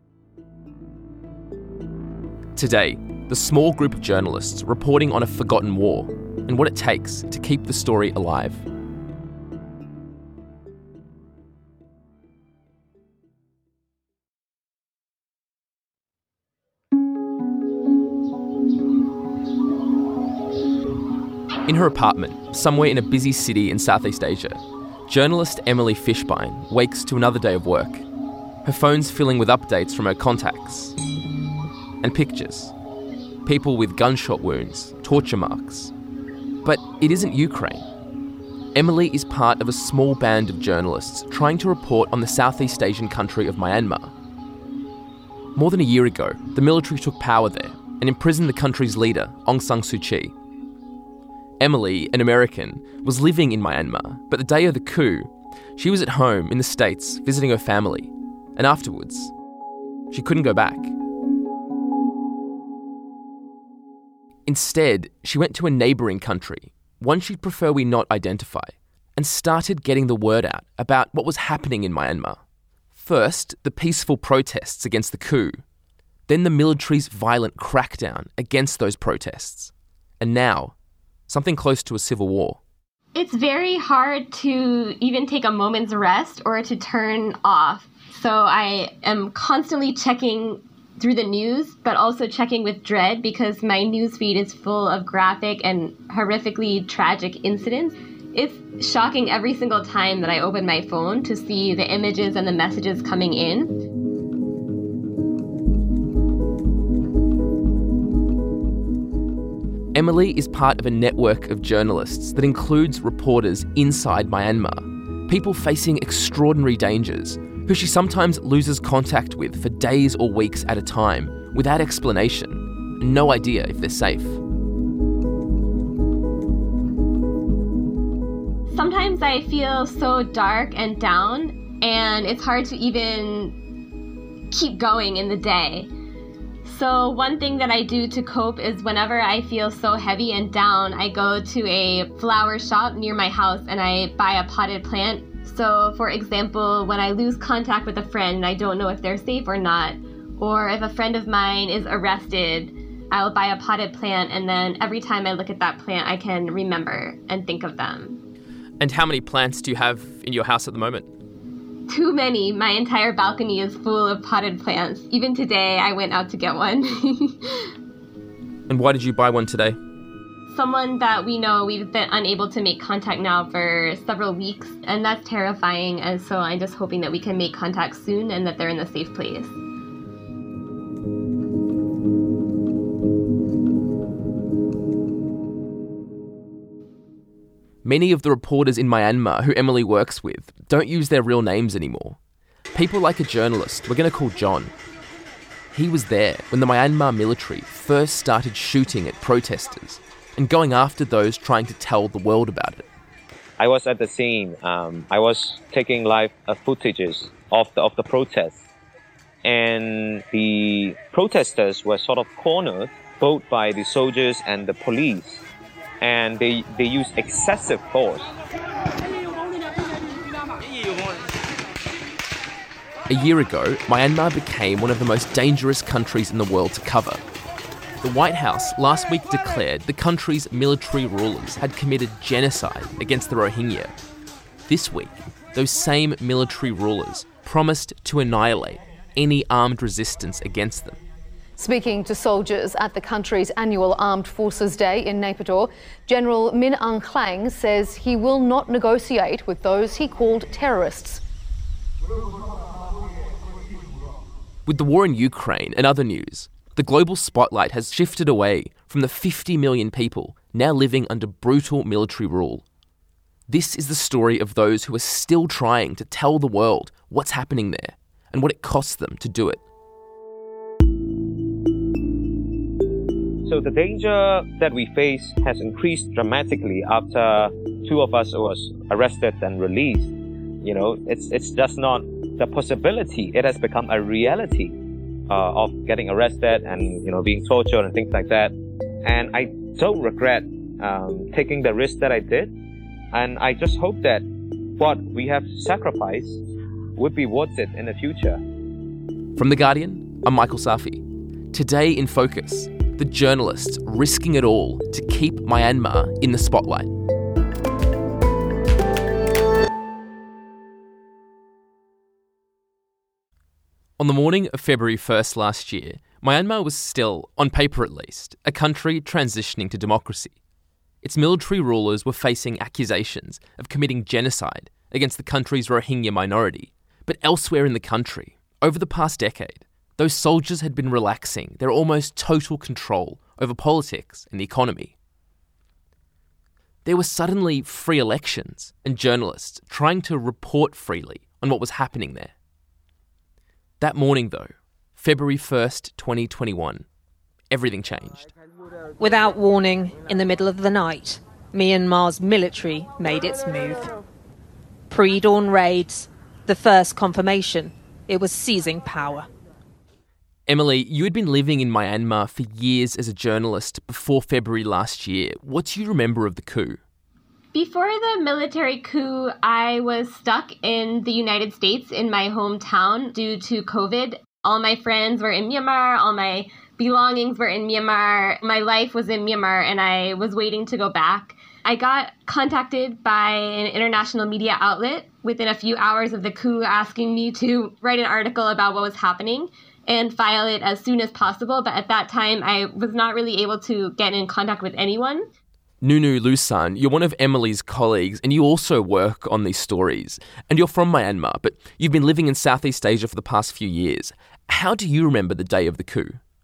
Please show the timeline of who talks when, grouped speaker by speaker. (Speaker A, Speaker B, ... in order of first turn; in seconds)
Speaker A: 2.5-8.6, 21.6-28.0, 28.6-30.9, 32.0-32.7, 33.4-35.9, 36.6-37.8, 38.7-44.1, 45.5-50.3, 51.6-59.3, 60.1-60.9, 64.5-72.4, 72.9-75.6, 76.3-80.7, 81.3-82.6, 109.9-124.4, 158.8-161.1, 168.7-169.8, 187.8-192.2, 192.7-194.7, 195.7-202.8, 223.1-227.2, 228.0-233.9, 234.7-241.0, 254.7-262.6, 263.5-269.6, 299.4-306.9, 314.0-320.4, 321.0-334.9, 336.8-342.3, 343.8-346.8, 347.5-348.3, 360.5-366.8, 395.8-406.2
Speaker B: 83.1-103.7, 128.7-133.5, 134.5-135.9, 136.6-158.2, 161.9-167.7, 170.5-179.5, 367.5-395.2
Speaker C: 203.6-208.6, 209.4-215.4, 216.0-218.3, 273.4-284.8, 285.3-292.5, 293.1-294.2, 294.8-296.4, 296.9-298.4
Speaker D: 241.6-251.2
Speaker E: 349.0-353.9, 354.9-359.3